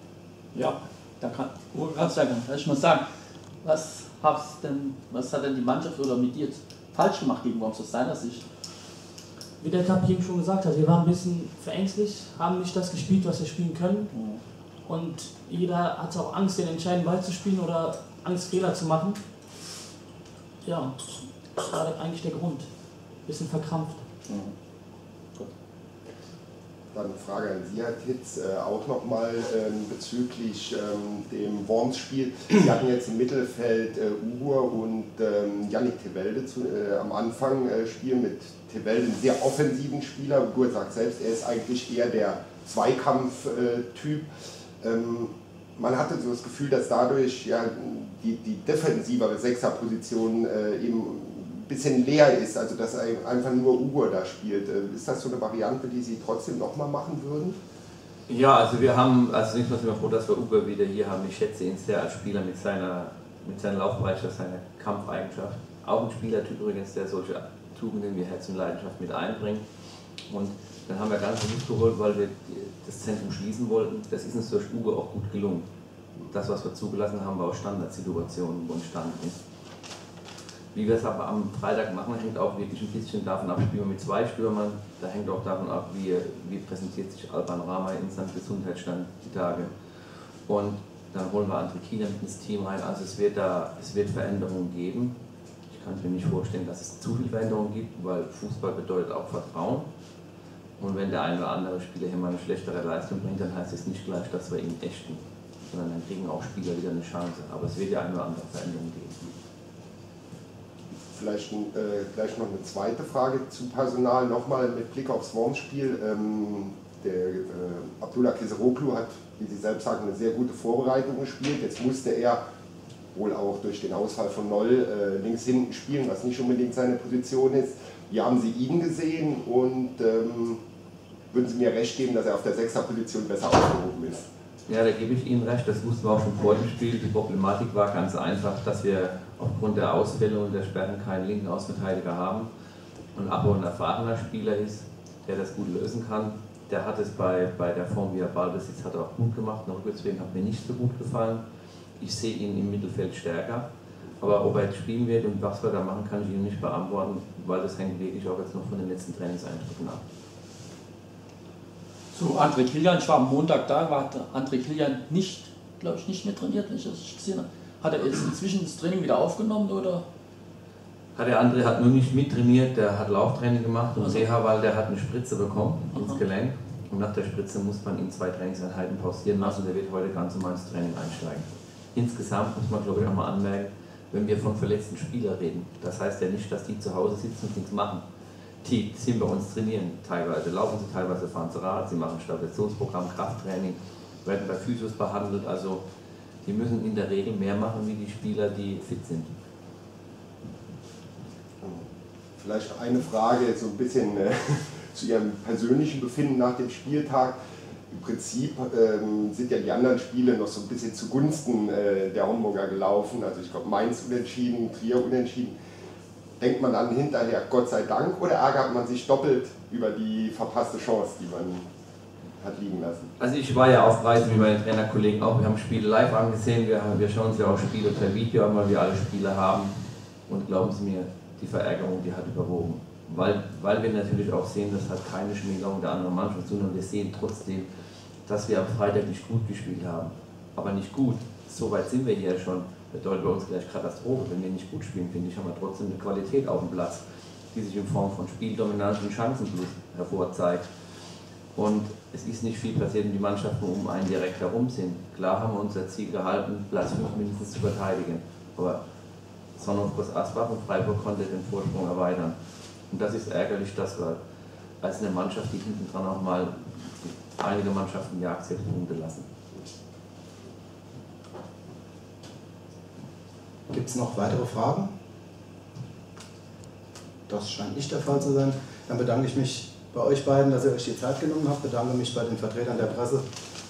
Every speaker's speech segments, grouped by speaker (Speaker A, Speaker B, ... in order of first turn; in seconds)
Speaker A: 0.5-3.0, 3.6-8.4, 14.1-14.4, 24.2-24.5, 162.1-170.0
Speaker B: 9.6-14.1, 14.7-19.2, 20.6-24.1
Speaker C: 26.9-44.2, 44.8-57.6, 111.1-122.4, 123.1-130.6, 131.3-134.3, 201.6-207.3, 207.9-215.5, 216.4-221.7, 222.4-223.1
Speaker D: 58.3-69.6, 70.3-75.7, 76.3-79.4, 80.7-89.7, 90.5-95.2, 95.7-99.9, 100.8-109.3, 134.7-142.5, 143.1-151.4, 152.0-153.7, 154.2-160.0, 171.1-188.0, 188.6-195.8, 196.4-199.3, 223.2-237.7, 238.2-250.7, 251.5-258.8, 259.5-262.4, 262.9-264.2, 264.8-269.3
Speaker E: 273.7-274.9, 277.3-283.2